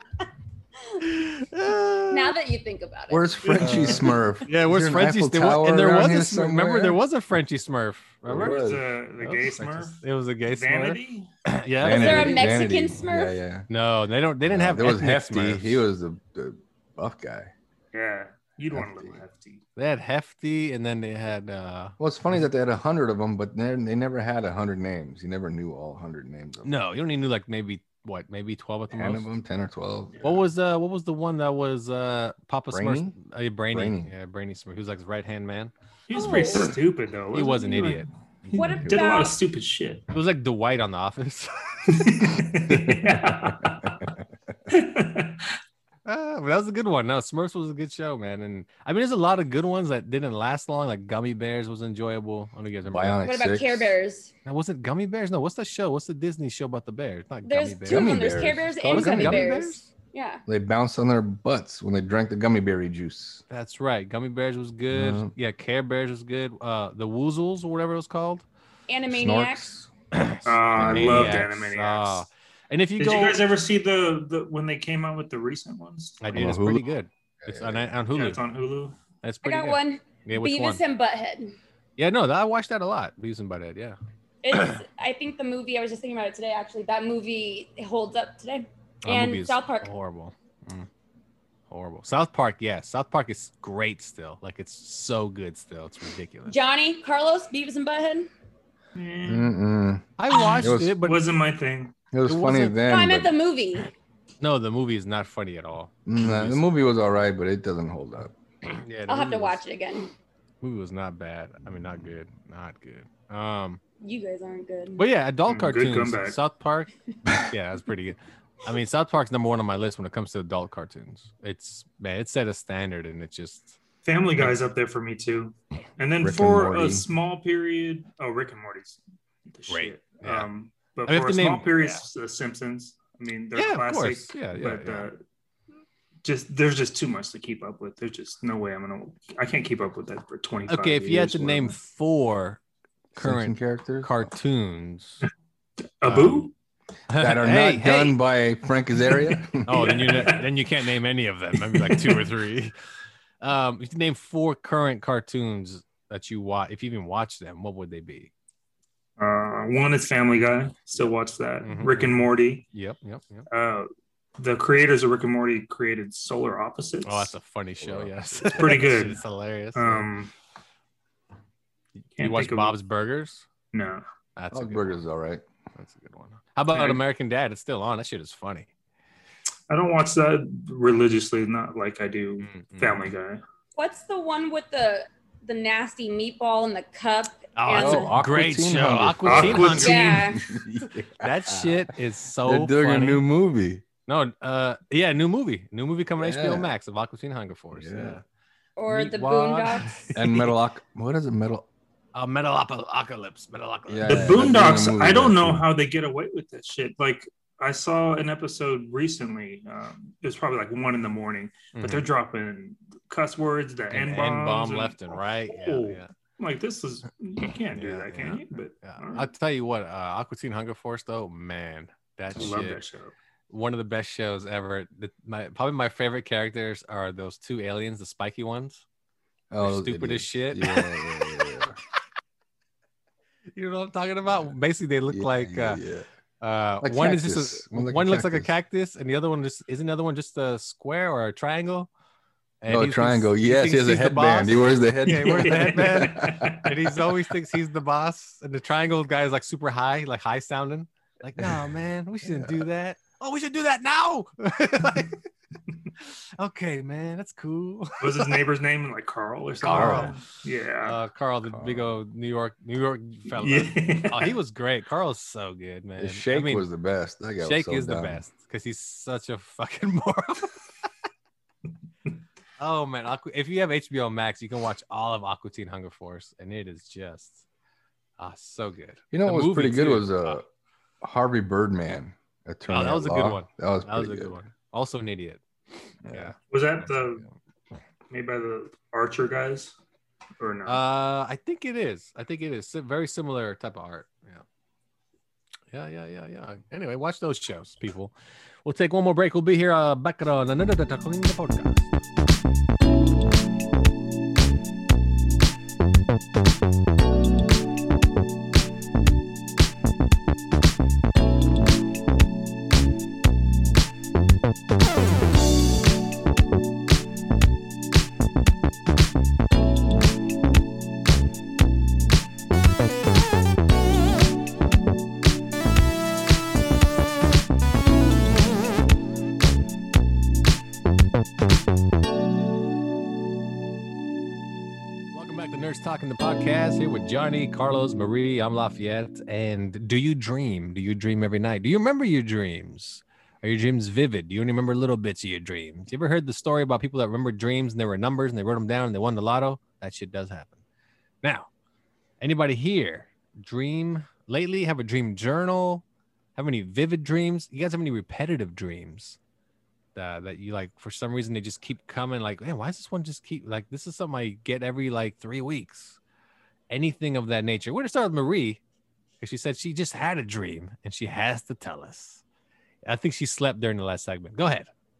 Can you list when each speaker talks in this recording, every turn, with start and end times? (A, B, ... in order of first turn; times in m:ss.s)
0:01.0-0:02.3 A
0:02.1-0:03.4 B
0:03.1-0:07.0 C
0:03.4-0:04.2 D
0:03.6-0:12.5 A
0:08.2-0:08.8 C
0:08.3-0:11.3 D
0:11.8-0:13.7 C
0:11.9-0:13.4 B
0:13.7-0:15.8 A
0:14.4-0:17.5 C
0:17.9-0:19.6 D
0:18.7-0:19.2 C
0:19.8-0:22.0 A
0:22.0-0:26.7 C
0:26.6-0:29.2 A
0:28.9-0:30.3 C
0:30.2-0:35.7 A
0:32.7-0:33.2 C
0:33.7-0:34.1 C
0:36.1-0:40.0 D
0:36.1-0:36.7 B
0:37.3-0:38.8 A
0:38.5-0:39.4 B
0:40.1-0:42.2 A
0:41.9-0:44.0 D
0:42.7-0:43.1 C
0:44.7-0:45.4 D
0:46.0-0:53.2 A
0:52.9-0:53.9 C
0:53.2-0:54.3 B
0:54.4-0:59.9 A
0:57.4-1:00.4 B
0:57.9-0:59.6 C
1:00.5-1:03.4 C
1:03.5-1:08.4 A
1:04.9-1:05.3 C
1:08.9-1:09.7 B
1:09.1-1:09.9 C
1:10.1-1:13.5 A
1:10.4-1:12.2 D
1:10.7-1:11.4 C
1:13.0-1:16.2 D
1:16.2-1:18.4 A
1:16.3-1:16.9 C
1:17.4-1:17.9 C
1:18.1-1:19.0 D
1:19.2-1:20.8 A
1:19.4-1:21.6 B
1:22.0-1:24.0 A
1:24.4-1:29.9 B
1:29.0-1:30.9 A
1:31.7-1:36.5 A
1:36.5-1:38.3 B
1:39.0-1:39.5 D
1:39.2-1:40.9 C
1:40.2-1:41.2 A
1:41.0-1:42.0 D
1:42.1-1:43.3 C
1:42.2-1:42.8 A
1:42.8-1:43.9 B
1:44.4-1:46.6 A
1:46.0-1:48.3 C
1:48.7-1:49.6 A
1:49.1-1:50.1 B
1:50.6-1:53.8 A
1:54.0-1:55.0 B
1:55.0-2:03.8 A
1:55.5-1:56.4 D
2:04.0-2:15.2 D
2:06.2-2:07.0 C
2:09.7-2:10.5 A
2:11.0-2:12.0 A
2:13.5-2:15.1 A
2:16.2-2:21.8 D
2:20.7-2:22.6 A
2:23.1-2:25.2 A
2:23.1-2:24.3 C
2:26.0-2:26.5 D
2:26.0-2:26.5 A
2:27.1-2:28.2 A
2:27.1-2:30.0 C
2:29.6-2:32.7 A
2:29.7-2:30.4 D
2:31.7-2:32.2 D
2:33.4-2:38.3 A
2:39.2-2:42.6 D
2:41.6-2:43.5 A
2:43.5-2:47.3 D
2:47.0-2:50.1 A
2:47.8-2:48.8 C
2:48.5-2:49.2 D
2:49.7-2:50.3 D
2:52.2-2:53.4 A
2:52.2-2:52.7 D
2:53.7-2:54.0 D
2:54.4-2:55.0 A
2:54.5-2:55.4 C
2:55.8-2:58.7 A
2:56.7-2:57.0 D
2:59.7-3:03.4 D
3:02.4-3:03.0 A
3:03.8-3:08.2 B
3:07.6-3:13.2 A
3:07.7-3:11.9 C
3:09.2-3:10.2 D
3:09.8-3:10.4 B
3:12.4-3:13.8 C
3:14.1-3:18.2 A
3:16.2-3:16.7 C
3:17.7-3:18.2 C
3:18.8-3:20.1 B
3:18.8-3:20.5 A
3:20.1-3:21.7 C
3:22.1-3:24.7 A
3:23.9-3:25.7 C
3:24.0-3:39.3 D
3:31.7-3:32.1 A
3:33.9-3:36.1 A
3:37.7-3:42.8 A
3:42.3-3:43.1 D
3:43.5-3:48.8 A
3:49.5-3:51.8 C
3:49.6-3:51.4 A
3:53.5-3:55.8 A
3:55.1-3:56.0 C
3:56.4-4:01.9 A
3:56.8-3:58.5 C
4:02.6-4:15.2 A
4:02.7-4:06.7 C
4:05.1-4:06.7 D
4:11.4-4:11.7 C
4:12.2-4:12.7 C
4:16.4-4:18.3 A
4:18.0-4:21.0 D
4:19.6-4:20.2 A
4:19.7-4:20.2 C
4:20.8-4:26.7 A
4:21.4-4:21.9 C
4:23.4-4:24.3 D
4:26.0-4:28.2 C
4:27.4-4:30.6 A
4:32.6-4:37.4 A
4:38.2-4:40.4 A
4:39.1-4:40.4 C
4:41.0-4:44.3 C
4:42.7-4:45.4 A
4:46.0-4:46.3 C
4:46.1-4:47.2 A
4:46.5-4:47.2 D
4:48.1-4:49.7 D
4:50.4-4:50.8 D
4:50.6-4:54.4 A
4:55.7-5:01.9 A
5:35.1-5:50.6 A
5:51.2-5:51.5 A
5:52.2-5:55.8 A
5:56.4-5:59.2 A
5:59.9-6:06.0 A
6:06.7-6:08.6 A
6:09.2-6:12.2 A
6:12.8-6:14.7 A